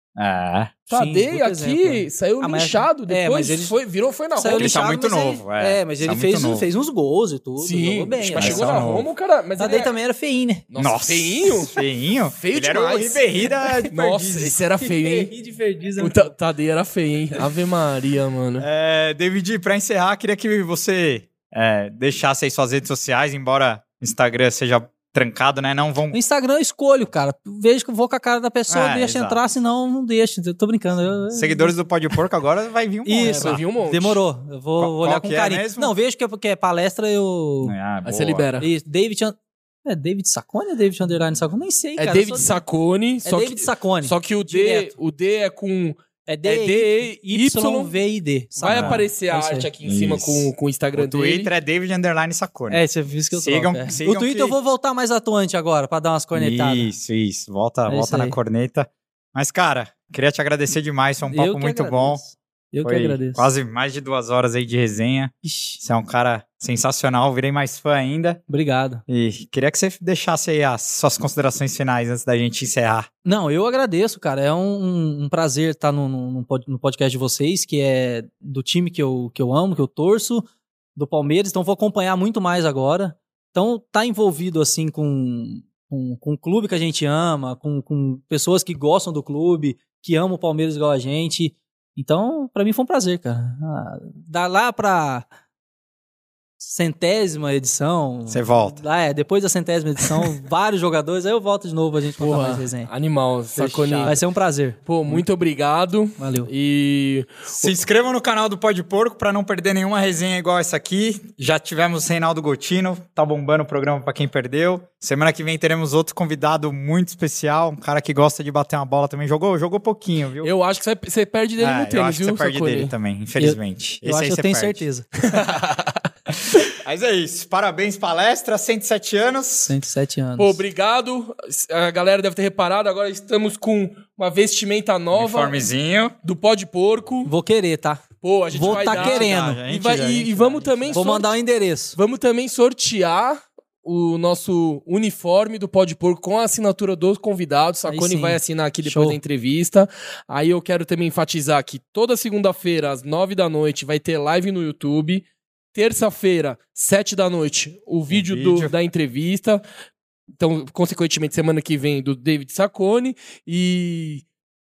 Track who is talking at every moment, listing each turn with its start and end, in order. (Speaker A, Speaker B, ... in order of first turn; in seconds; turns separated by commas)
Speaker A: 0.1-0.8, Speaker B: 0.9-4.8, Speaker C: 0.9-3.7, Speaker C: 4.3-8.9, Speaker A: 4.5-6.7, Speaker B: 7.6-9.9, Speaker A: 8.2-9.1, Speaker C: 9.6-10.6, Speaker B: 10.7-11.8, Speaker A: 10.8-14.6, Speaker B: 12.3-13.2, Speaker B: 13.9-15.3, Speaker C: 14.8-16.3, Speaker B: 16.0-18.6, Speaker A: 18.6-26.2, Speaker C: 26.1-31.7, Speaker A: 28.7-29.4, Speaker A: 31.3-33.6, Speaker C: 33.0-37.7, Speaker B: 33.2-34.2, Speaker A: 34.8-35.9, Speaker A: 37.6-38.5, Speaker B: 38.0-38.7, Speaker C: 38.6-42.6, Speaker B: 42.0-47.9, Speaker C: 43.2-44.9, Speaker C: 46.2-49.7, Speaker B: 48.6-51.5, Speaker A: 48.7-49.0, Speaker A: 49.8-54.5, Speaker C: 52.7-56.9, Speaker A: 56.3-62.2, Speaker C: 57.9-58.4, Speaker C: 61.3-63.5, Speaker A: 62.8-68.4, Speaker C: 65.4-65.8, Speaker C: 68.5-69.0, Speaker A: 69.1-73.1, Speaker C: 73.2-95.3, Speaker C: 96.6-102.9, Speaker A: 98.3-98.8, Speaker B: 102.2-104.2, Speaker A: 103.5-104.2, Speaker C: 104.0-104.8, Speaker B: 104.8-107.7, Speaker C: 106.2-106.5, Speaker A: 107.5-120.5, Speaker B: 120.4-122.9, Speaker A: 121.6-125.5, Speaker C: 123.4-125.0, Speaker B: 125.2-126.1, Speaker A: 126.5-129.7, Speaker C: 129.7-130.6, Speaker B: 130.4-135.6, Speaker A: 135.1-136.1, Speaker B: 136.2-137.3, Speaker C: 137.2-139.6, Speaker B: 138.2-141.3, Speaker A: 138.6-141.1, Speaker C: 140.9-141.9, Speaker B: 141.9-159.6, Speaker C: 147.9-149.2, Speaker A: 158.1-158.7, Speaker B: 160.4-164.2